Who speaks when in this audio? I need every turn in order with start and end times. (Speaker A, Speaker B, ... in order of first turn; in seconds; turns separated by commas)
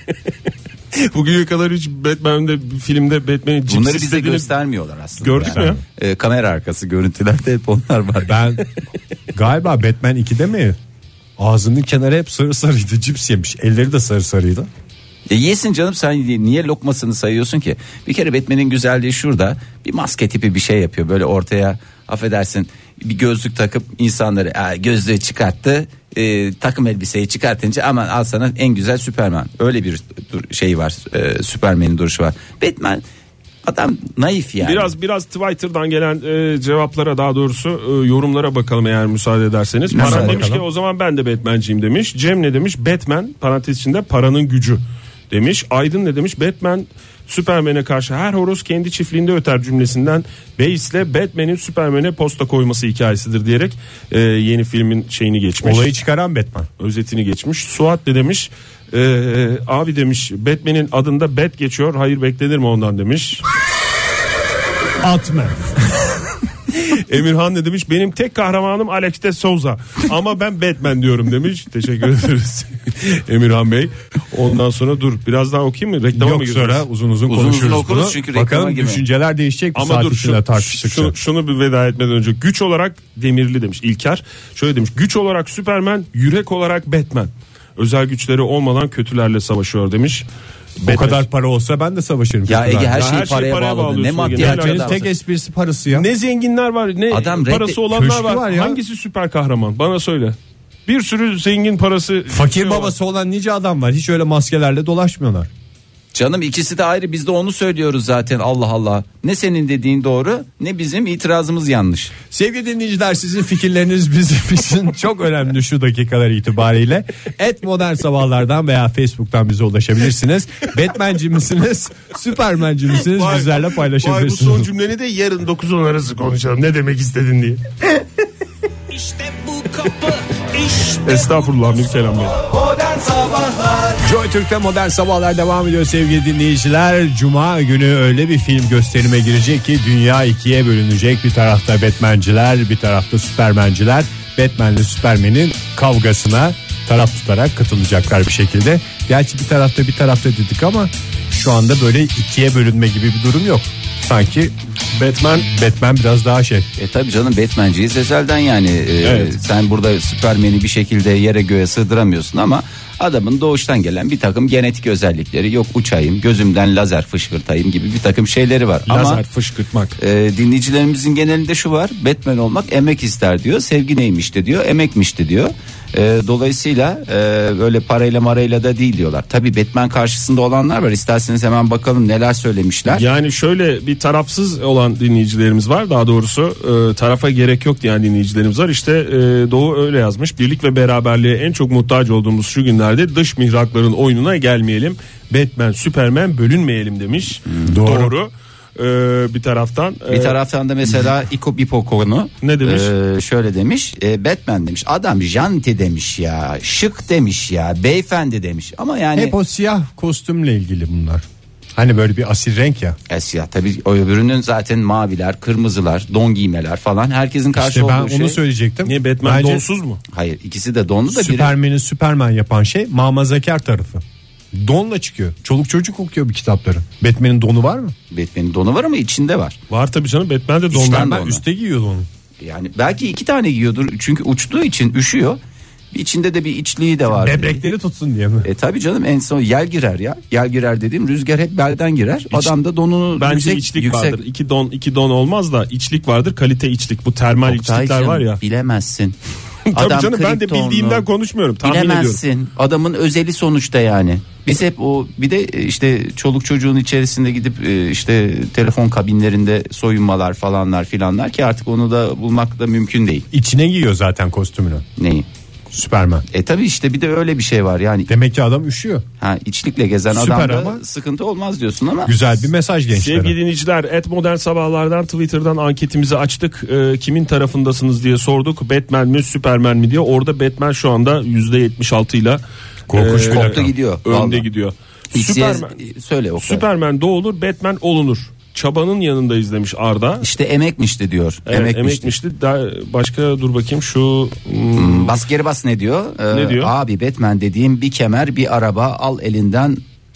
Speaker A: 0.9-4.5, Speaker B: 3.7-8.6, Speaker A: 5.2-5.8, Speaker C: 5.4-5.8, Speaker C: 8.3-8.6, Speaker C: 9.3-10.8, Speaker C: 11.4-14.7, Speaker B: 15.3-33.0, Speaker B: 33.6-34.9, Speaker A: 34.6-55.9, Speaker B: 39.9-40.5, Speaker C: 40.0-40.6, Speaker C: 55.6-56.7, Speaker A: 56.8-63.5, Speaker C: 65.0-66.1, Speaker A: 66.7-76.9, Speaker C: 76.1-81.2, Speaker B: 77.3-79.0, Speaker A: 79.8-90.3, Speaker A: 90.8-91.2, Speaker C: 90.8-93.1, Speaker B: 92.5-95.1, Speaker A: 92.9-95.1, Speaker C: 94.3-96.1, Speaker A: 95.9-100.4, Speaker B: 97.1-97.8, Speaker C: 97.9-98.8, Speaker A: 100.9-102.9, Speaker C: 102.3-105.5, Speaker B: 106.1-112.2, Speaker C: 112.3-124.7, Speaker A: 123.0-127.6, Speaker A: 128.9-132.5, Speaker B: 132.7-133.8, Speaker C: 134.0-154.5, Speaker A: 154.9-155.5, Speaker C: 155.4-156.7, Speaker B: 156.8-169.2, Speaker A: 159.0-159.4, Speaker A: 168.9-170.0, Speaker B: 170.0-183.1, Speaker A: 182.9-200.4, Speaker C: 197.7-198.1, Speaker B: 200.1-209.3, Speaker A: 202.4-202.9, Speaker C: 209.2-211.2, Speaker C: 211.8-213.0, Speaker B: 213.1-218.4, Speaker C: 217.6-219.7, Speaker A: 218.8-220.0, Speaker B: 220.1-221.6, Speaker C: 221.1-227.9, Speaker B: 228.1-229.6, Speaker A: 229.7-231.2, Speaker B: 230.7-231.4, Speaker C: 230.8-232.1, Speaker B: 232.4-235.4, Speaker B: 235.9-237.7, Speaker C: 237.1-238.5, Speaker B: 238.4-244.2, Speaker A: 243.2-248.4, Speaker B: 247.5-249.2, Speaker A: 249.7-252.2, Speaker B: 249.7-251.1, Speaker B: 251.6-263.3, Speaker C: 263.3-264.9, Speaker B: 265.0-265.3, Speaker C: 265.7-266.2, Speaker B: 266.3-268.1, Speaker C: 268.1-269.1, Speaker B: 269.2-272.1, Speaker C: 270.1-270.8, Speaker C: 272.1-273.4, Speaker A: 272.9-282.4, Speaker C: 282.9-283.7, Speaker A: 282.9-285.8, Speaker B: 283.2-284.4, Speaker B: 285.1-286.6, Speaker A: 286.4-290.3, Speaker B: 290.2-292.1, Speaker A: 291.5-295.2, Speaker B: 294.8-299.8, Speaker A: 296.3-296.7